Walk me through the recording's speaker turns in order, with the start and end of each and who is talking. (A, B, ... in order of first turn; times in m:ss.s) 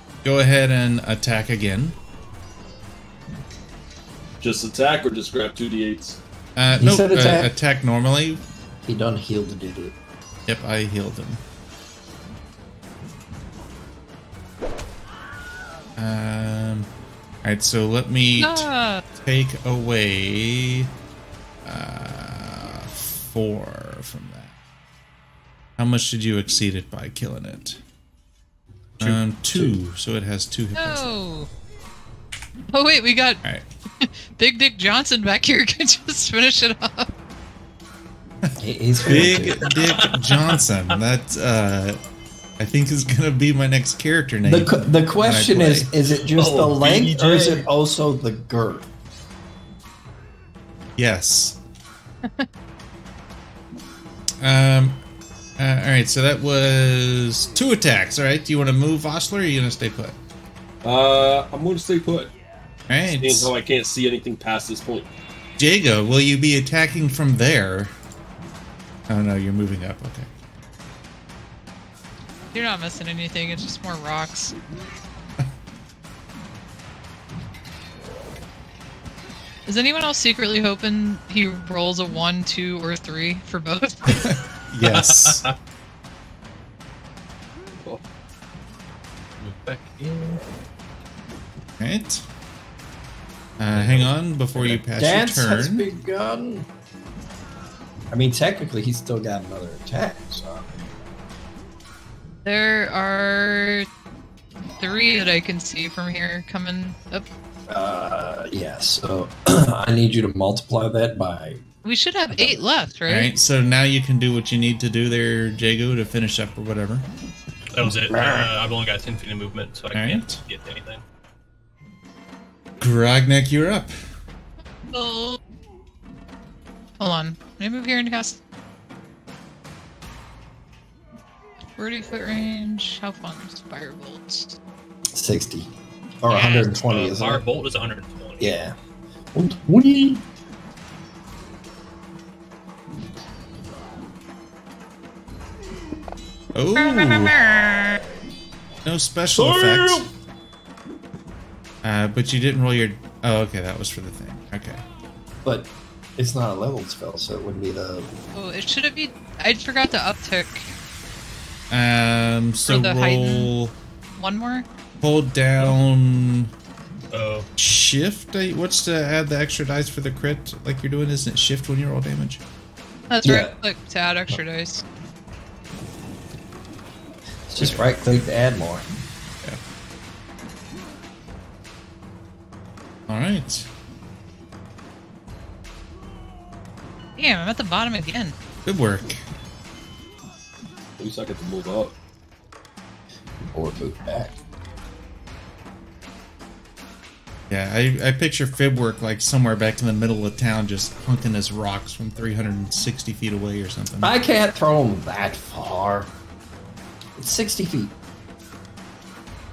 0:00.2-0:02.0 A
0:04.4-0:06.2 B
0:06.6-0:08.4 A
0:06.8-0:07.5 C
0:08.8-0:10.0 C
0:10.5-0:11.4 A
0:16.0-0:16.9 A
0:17.4-0:20.9 A
0:18.4-0:19.0 D
0:21.6-0:24.5 A
0:25.8-0:27.8 A
0:29.0-0:31.2 A
0:29.0-0:29.8 C
0:30.8-0:31.5 D
0:32.7-0:33.4 D
0:34.0-0:37.1 D
0:38.6-0:39.7 C
0:39.0-0:42.0 A
0:42.6-0:45.9 A
0:44.4-0:48.9 C
0:46.4-0:47.6 E
0:51.0-0:51.6 A
0:54.4-0:55.0 A
0:55.6-1:00.2 A
1:00.8-1:02.3 B
1:02.9-1:03.5 A
1:03.1-1:05.1 B
1:05.6-1:07.9 A
1:09.1-1:10.3 A
1:12.5-1:14.5 D
1:19.7-1:24.3 D
1:24.1-1:25.5 A
1:24.8-1:25.5 E
1:29.4-1:30.4 E
1:31.8-1:32.2 A
1:33.6-1:35.9 A
1:33.8-1:34.1 E
1:34.6-1:36.7 C
1:38.1-1:40.8 C
1:42.4-1:43.9 D
1:44.8-1:47.2 D
1:47.7-1:51.6 C
1:51.8-1:53.3 D
1:52.3-1:52.6 C
1:53.1-1:57.1 A
1:57.7-2:01.0 E
1:58.0-1:58.5 C
1:59.9-2:00.4 A
2:02.8-2:03.9 A
2:04.9-2:05.4 D
2:07.0-2:08.4 D
2:11.8-2:14.6 D
2:15.1-2:17.4 C
2:16.3-2:18.6 E
2:18.4-2:18.8 C
2:19.3-2:20.2 C
2:26.5-2:27.4 A
2:26.8-2:28.0 D
2:28.8-2:30.1 A
2:29.4-2:30.0 C
2:31.8-2:34.8 A
2:35.4-2:38.1 C
2:38.3-2:40.7 D
2:41.7-2:43.8 A
2:42.7-2:43.5 D
2:44.2-2:44.7 D
2:45.0-2:46.5 A
2:47.1-2:47.5 E
2:47.6-2:52.4 A
2:53.1-2:54.8 D
2:53.2-2:53.5 C
2:57.5-2:58.9 C
3:03.1-3:03.7 A
3:07.2-3:08.3 D
3:08.6-3:09.2 A
3:11.0-3:12.0 B
3:13.4-3:14.4 C
3:17.5-3:24.2 A
3:24.0-3:26.1 C
3:27.2-3:28.0 C